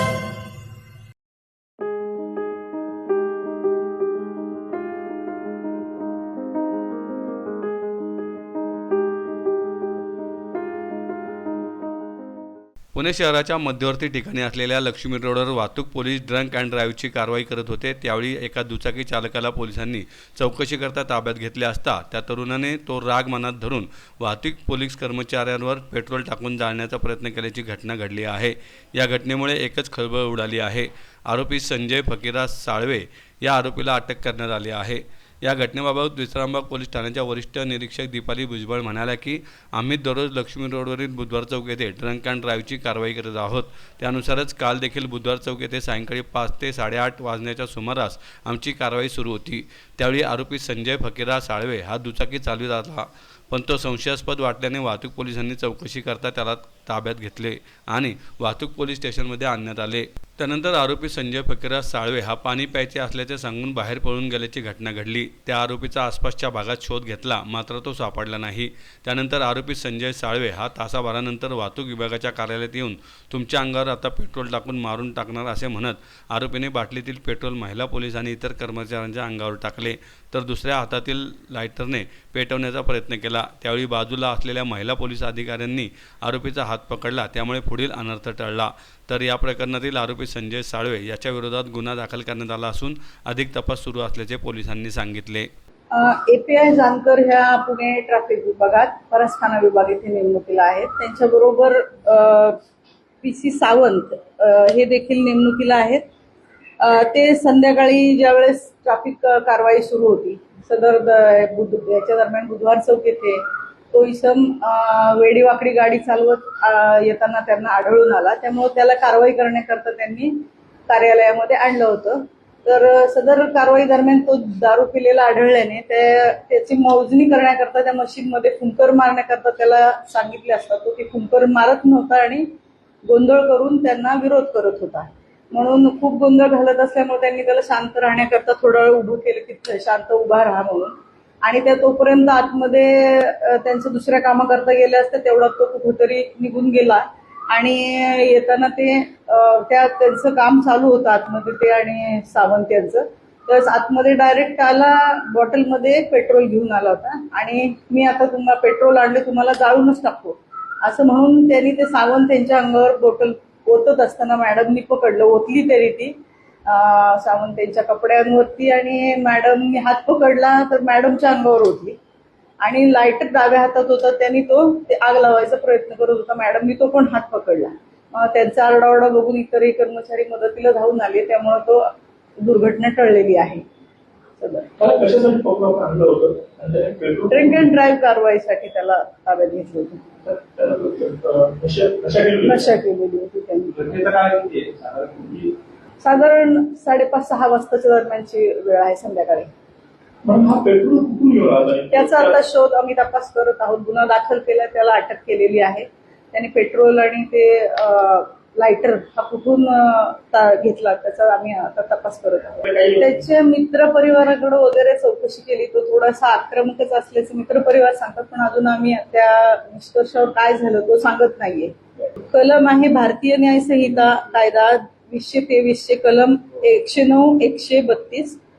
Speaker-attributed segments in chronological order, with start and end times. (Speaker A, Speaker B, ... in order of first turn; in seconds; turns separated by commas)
Speaker A: 12.9-95.5, Speaker B: 95.9-102.6, Speaker B: 103.2-106.0, Speaker B: 106.8-120.3, Speaker B: 120.9-132.5, Speaker B: 133.0-166.1, Speaker B: 166.7-172.0, Speaker B: 172.6-181.9, Speaker B: 182.4-183.6, Speaker B: 184.4-184.7, Speaker C: 184.8-187.7, Speaker B: 187.3-190.1, Speaker C: 190.2-192.6, Speaker B: 192.4-193.8, Speaker C: 193.7-195.6, Speaker B: 196.0-199.5, Speaker C: 200.2-202.3, Speaker B: 201.9-228.4, Speaker C: 212.7-213.0